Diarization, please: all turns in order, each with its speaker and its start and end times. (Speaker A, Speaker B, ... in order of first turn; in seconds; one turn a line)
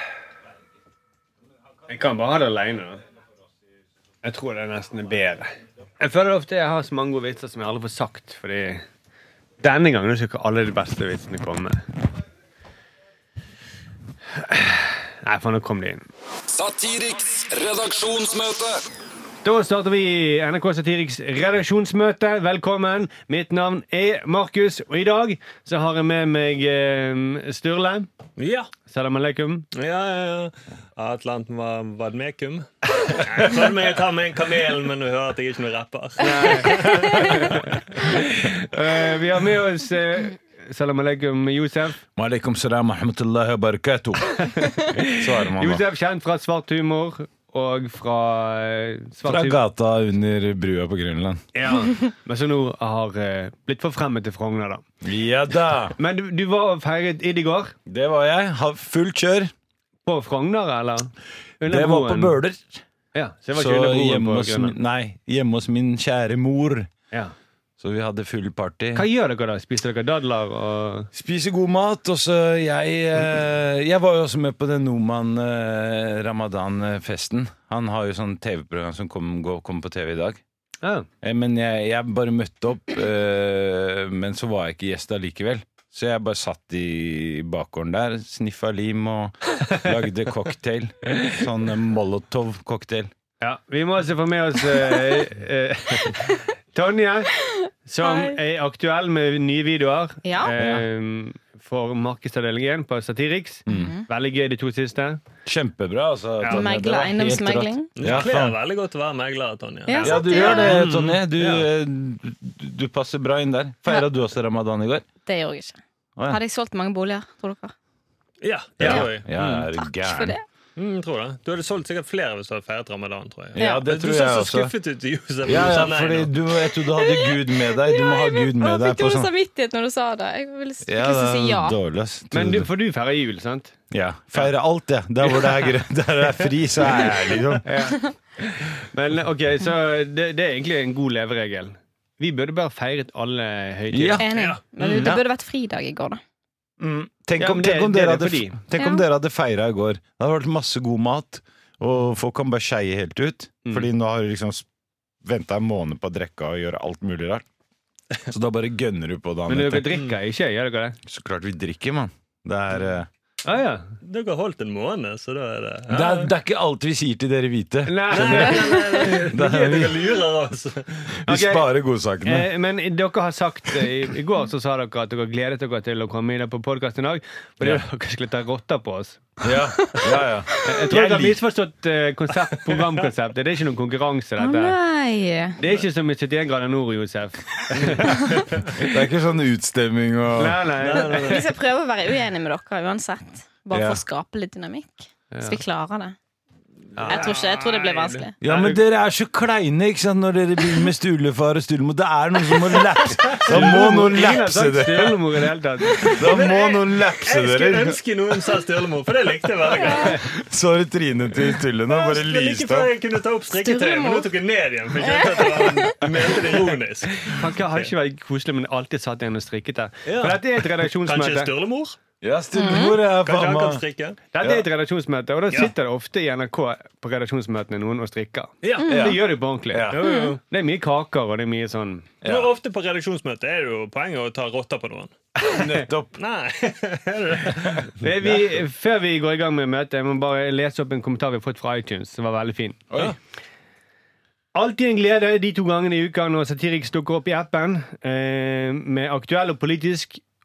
Speaker A: 1.9-3.0
Speaker A: 4.2-5.5
Speaker A: 6.0-8.8
Speaker A: 9.6-11.8
Speaker A: 14.3-16.1
Speaker B: 16.5-18.8
Speaker A: 19.4-28.1
Speaker C: 28.4-28.7
Speaker A: 28.9-29.7
Speaker C: 29.7-38.0
Speaker A: 36.2-42.0
Speaker D: 42.1-45.8
Speaker A: 44.5-49.6
Speaker D: 49.2-51.4
Speaker A: 51.5-54.8
Speaker D: 55.0-56.0
Speaker A: 55.9-57.7
Speaker D: 57.9-59.5
Speaker A: 60.0-62.4
Speaker D: 61.7-62.8
Speaker A: 63.1-64.8
Speaker D: 63.5-66.9
Speaker D: 67.8-69.1
Speaker A: 68.9-71.1
Speaker D: 71.1-80.4
Speaker A: 80.8-81.1
Speaker D: 81.2-93.1
Speaker A: 93.4-105.2
Speaker E: 98.0-98.4
Speaker E: 100.2-100.5
Speaker D: 100.5-100.8
Speaker D: 103.7-103.9
Speaker E: 103.7-104.0
Speaker D: 105.5-108.5
Speaker E: 106.5-107.9
Speaker C: 108.0-111.7
Speaker E: 109.9-110.8
Speaker D: 110.0-115.0
Speaker E: 115.2-117.7
Speaker C: 118.4-119.3
Speaker D: 118.8-120.4
Speaker E: 118.8-120.4
Speaker C: 120.8-126.3
Speaker D: 123.5-124.7
Speaker E: 123.6-123.8
Speaker D: 125.4-129.3
Speaker E: 126.7-131.8
Speaker D: 130.8-132.7
Speaker A: 132.3-133.8
Speaker D: 133.9-137.7
Speaker A: 137.6-144.2
Speaker D: 143.9-144.3
Speaker E: 144.2-146.2
Speaker C: 144.3-145.1
Speaker D: 144.9-145.2
Speaker D: 146.8-154.7
Speaker A: 147.4-148.6
Speaker E: 148.8-149.0
Speaker D: 155.2-157.4
Speaker D: 158.2-160.0
Speaker A: 159.5-161.0
Speaker D: 161.1-163.1
Speaker A: 163.4-164.0
Speaker C: 164.0-166.3
Speaker D: 165.9-170.2
Speaker A: 167.8-168.9
Speaker C: 168.1-171.1
Speaker D: 171.2-172.5
Speaker A: 171.3-171.7
Speaker A: 172.2-179.4
Speaker D: 179.4-181.4
Speaker A: 180.6-184.8
Speaker E: 184.4-185.6
Speaker A: 185.6-188.4
Speaker D: 188.7-191.0
Speaker A: 190.3-191.4
Speaker C: 190.8-191.5
Speaker E: 191.1-196.2
Speaker D: 193.7-194.0
Speaker A: 195.3-195.6
Speaker C: 196.9-198.7
Speaker A: 196.9-197.4
Speaker E: 197.1-198.3
Speaker D: 198.4-205.2
Speaker A: 203.4-206.2
Speaker D: 206.0-208.0
Speaker C: 206.0-210.2
Speaker E: 209.8-210.1
Speaker A: 209.9-210.2
Speaker D: 210.3-212.9
Speaker C: 211.9-217.9
Speaker E: 213.5-214.3
Speaker E: 215.0-216.0
Speaker A: 217.3-221.5
Speaker C: 220.0-222.0
Speaker D: 222.2-223.8
Speaker E: 222.5-223.0
Speaker C: 223.1-224.2
Speaker A: 224.3-232.1
Speaker C: 228.6-229.0
Speaker E: 228.8-229.2
Speaker D: 228.8-230.1
Speaker C: 229.9-230.4
Speaker E: 230.0-230.3
Speaker D: 232.2-232.5
Speaker C: 232.2-235.1
Speaker D: 235.4-236.2
Speaker C: 236.2-237.9
Speaker A: 238.0-242.9
Speaker D: 242.9-243.2
Speaker A: 244.5-250.2